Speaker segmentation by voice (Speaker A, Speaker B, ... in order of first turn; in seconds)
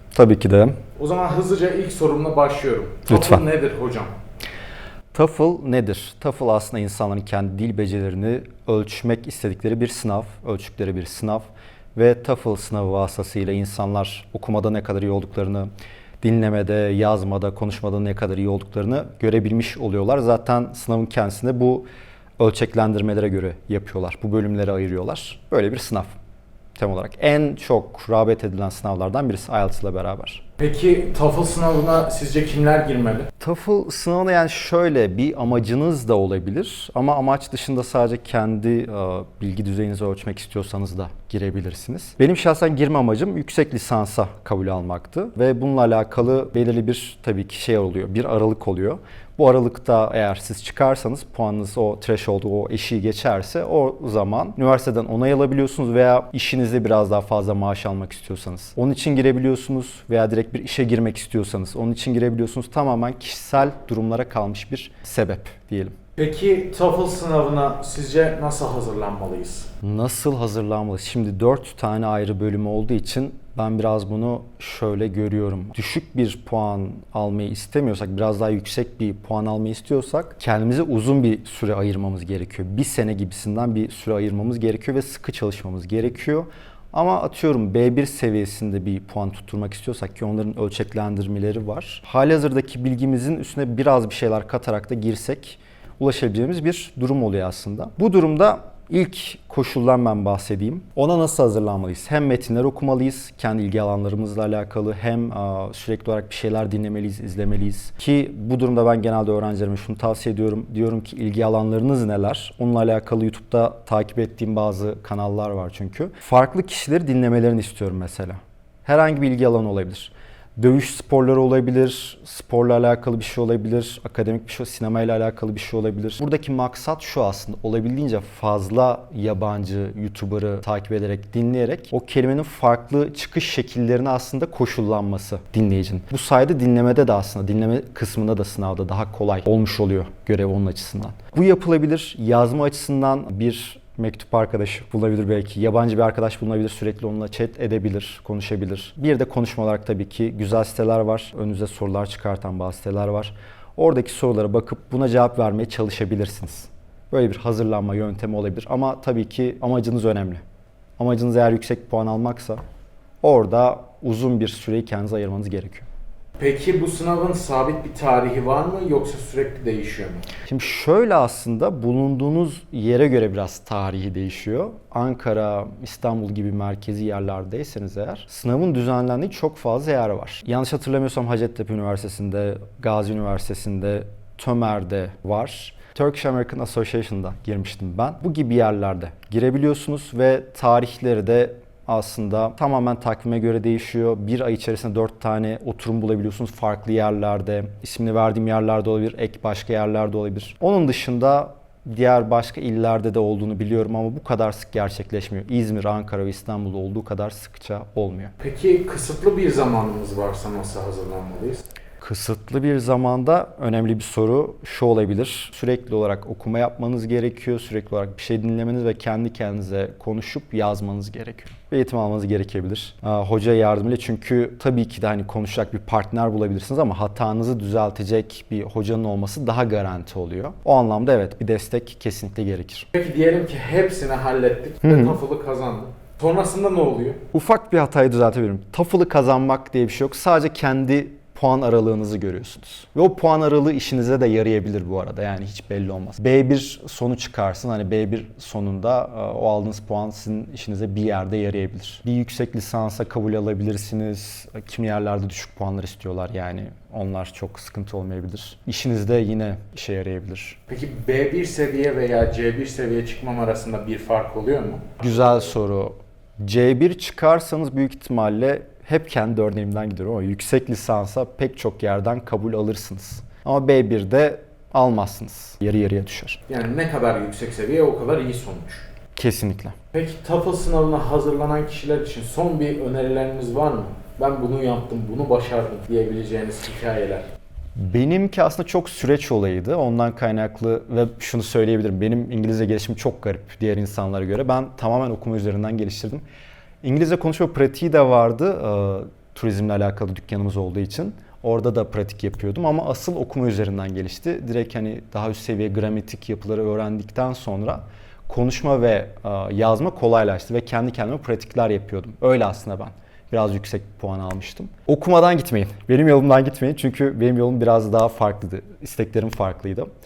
Speaker A: 0.1-0.8, 3.1-3.4, 5.1-15.7, 16.2-21.9, 22.4-26.1, 26.8-30.4, 33.4-65.9, 69.8-160.4, 161.0-162.6, 163.2-165.9, 170.5-208.3, 212.0-232.9, 234.8-235.2, 237.3-260.6, 265.0-276.4, 279.1-279.7, 287.8-296.2, 296.8-319.9
Speaker B: 1.0-4.1, 30.6-33.3, 66.2-69.7, 166.4-170.2, 208.4-211.7, 232.9-237.2, 260.7-265.5, 276.5-278.9, 279.9-287.2